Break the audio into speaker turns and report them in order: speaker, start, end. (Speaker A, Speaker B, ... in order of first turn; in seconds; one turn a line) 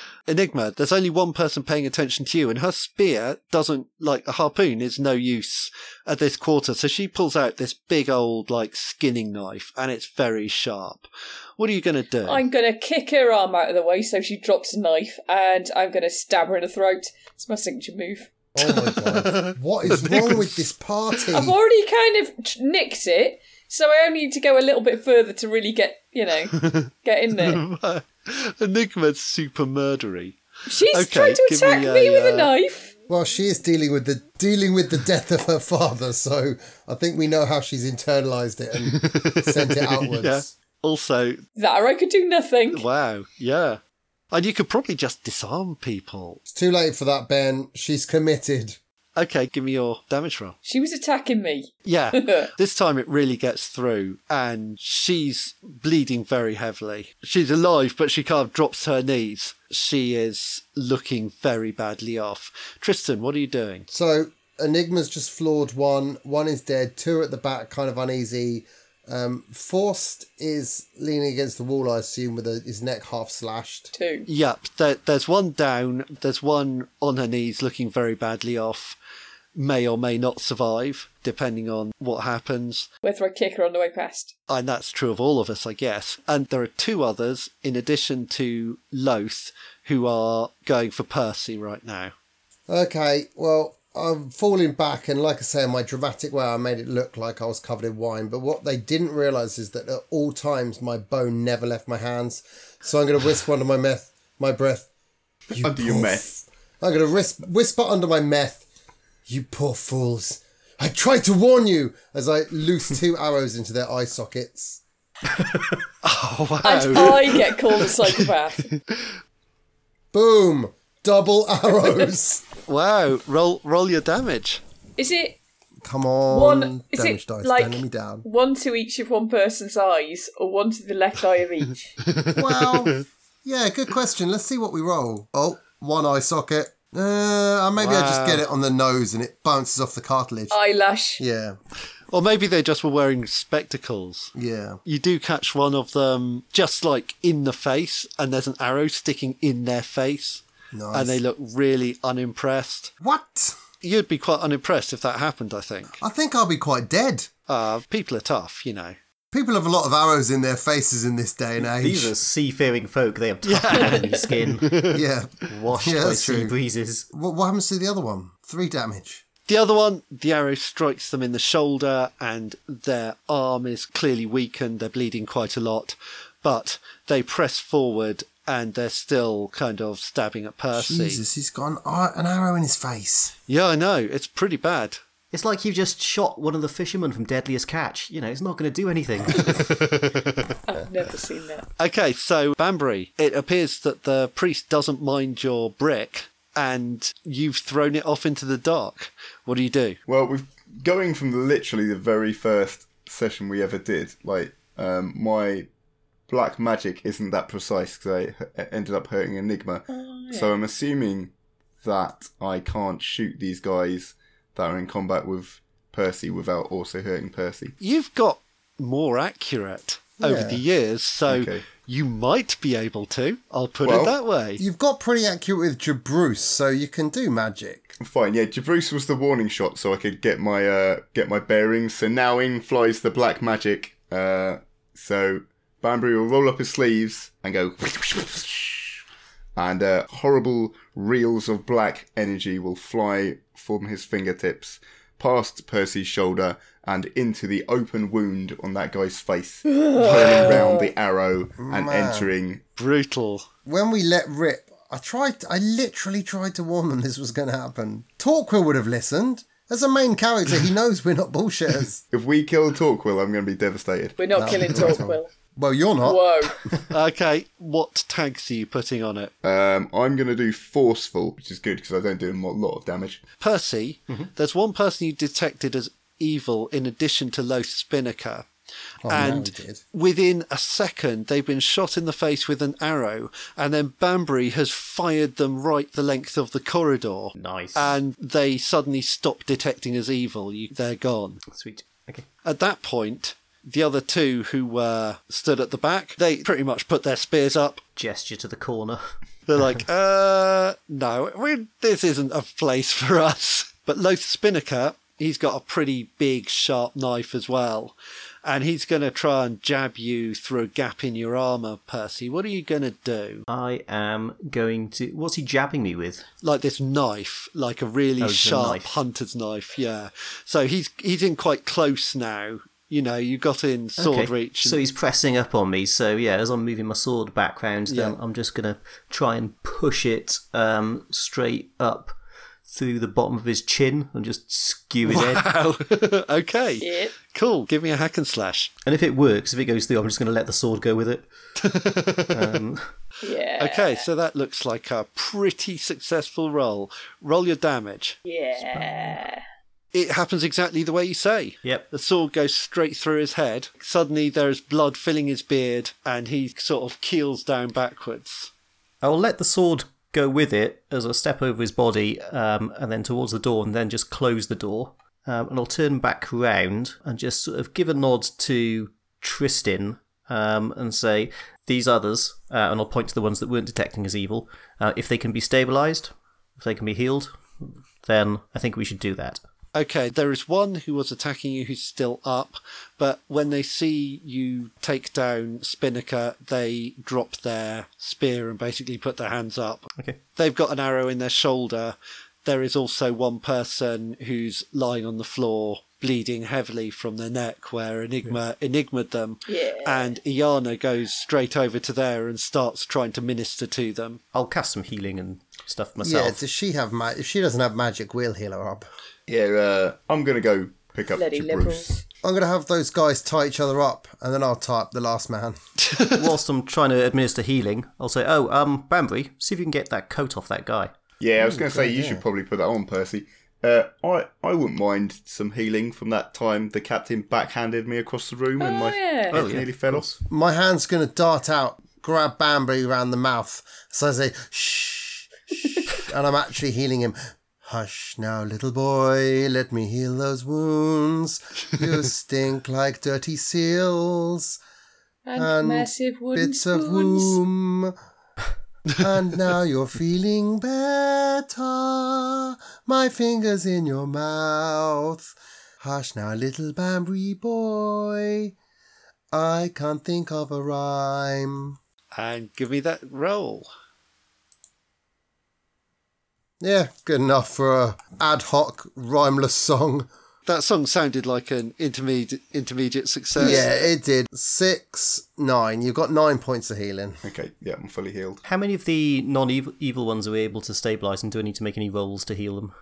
Speaker A: 0.3-12.4
Speaker B: 12.2-18.3
Speaker C: 18.6-21.6
Speaker A: 18.6-20.7
Speaker B: 21.3-27.6
Speaker A: 26.6-30.4
Speaker B: 30.7-32.9
Speaker A: 30.9-32.5
Speaker C: 33.1-40.5
Speaker A: 38.8-41.4
Speaker B: 41.6-42.9
Speaker A: 42.7-43.8
Speaker A: 44.3-46.4
Speaker C: 46.5-48.8
Speaker A: 49.2-50.6
Speaker B: 50.6-52.5
Speaker A: 51.9-63.9
Speaker C: 63.9-73.9
Speaker B: 73.9-74.3
Speaker A: 74.3-79.0
Speaker A: 79.5-82.9
Speaker B: 83.0-84.3
Speaker A: 84.5-92.1
Speaker C: 92.7-104.9
Speaker C: 105.5-108.7
Speaker D: 105.6-106.3
Speaker C: 109.3-114.8
Speaker A: 116.0-118.3
Speaker B: 116.6-118.7
Speaker A: 118.8-119.1
Speaker C: 120.1-122.5
Speaker A: 122.7-124.6
Speaker B: 125.0-125.4
Speaker C: 125.8-128.2
Speaker B: 126.3-132.0
Speaker A: 132.1-133.0
Speaker C: 132.3-140.6
Speaker A: 137.8-138.4
Speaker B: 140.5-141.2
Speaker C: 141.2-141.6
Speaker A: 142.1-144.3
Speaker C: 144.3-144.8
Speaker A: 144.9-152.9
Speaker C: 150.7-151.2
Speaker C: 153.0-153.6
Speaker A: 153.8-156.0
Speaker C: 156.0-157.3
Speaker A: 157.5-159.0
Speaker C: 159.3-162.1
Speaker E: 161.7-164.9
Speaker A: 163.4-165.0
Speaker B: 163.7-164.2
Speaker C: 164.9-166.6
Speaker E: 165.5-167.1
Speaker C: 167.1-169.2
Speaker A: 169.5-181.2
Speaker C: 180.8-183.3
Speaker A: 183.5-185.0
Speaker E: 185.3-189.7
Speaker A: 189.5-190.4
Speaker B: 190.7-191.7
Speaker A: 191.8-200.0
Speaker D: 200.1-205.7
Speaker D: 206.3-211.3
Speaker B: 209.9-210.6
Speaker D: 211.8-217.8
Speaker A: 217.8-224.6
Speaker C: 220.2-220.6
Speaker D: 221.3-221.7
Speaker D: 223.8-224.1
Speaker C: 224.6-227.9
Speaker D: 228.0-239.0
Speaker D: 239.6-252.6
Speaker B: 249.7-250.9
Speaker C: 251.6-252.3
Speaker A: 252.8-253.5
Speaker C: 253.7-262.0
Speaker D: 262.1-264.9
Speaker B: 264.2-265.3
Speaker C: 264.4-266.2
Speaker B: 266.0-266.6
Speaker A: 266.9-269.3
Speaker D: 269.4-273.2
Speaker A: 273.4-278.5
Speaker C: 279.0-279.8
Speaker A: 279.1-291.4
Speaker E: 287.4-287.9
Speaker E: 291.5-292.3
Speaker A: 292.4-297.8
Speaker E: 298.0-299.0
Speaker A: 299.5-313.4
Speaker E: 313.5-316.3
Speaker A: 316.4-324.8
Speaker E: 318.2-318.9
Speaker E: 324.0-332.1
Speaker A: 327.9-328.2
Speaker E: 332.7-335.4
Speaker A: 335.1-338.7
Speaker B: 336.8-337.2
Speaker E: 338.9-341.3
Speaker A: 341.6-342.6
Speaker E: 342.3-342.8
Speaker B: 343.2-344.1
Speaker A: 343.6-348.2
Speaker B: 348.2-349.4
Speaker E: 348.7-349.2
Speaker A: 349.9-358.5
Speaker E: 359.0-377.4
Speaker E: 378.0-379.4
Speaker A: 379.7-404.2
Speaker B: 399.5-400.1
Speaker E: 404.3-406.4
Speaker C: 406.0-408.9
Speaker D: 409.3-411.9
Speaker B: 411.1-412.0
Speaker C: 412.2-415.6
Speaker A: 415.8-416.3
Speaker E: 416.2-420.9
Speaker D: 421.2-430.1
Speaker C: 421.4-422.2
Speaker B: 428.6-429.4
Speaker E: 429.3-430.2
Speaker C: 430.3-435.3
Speaker C: 435.9-444.6
Speaker B: 445.2-447.4
Speaker C: 445.4-447.9
Speaker C: 449.0-458.6
Speaker C: 459.3-461.8
Speaker A: 462.1-463.7
Speaker C: 466.6-470.1
Speaker A: 470.5-473.8
Speaker C: 473.4-477.2
Speaker B: 473.4-473.7
Speaker D: 477.2-478.5
Speaker E: 478.5-482.7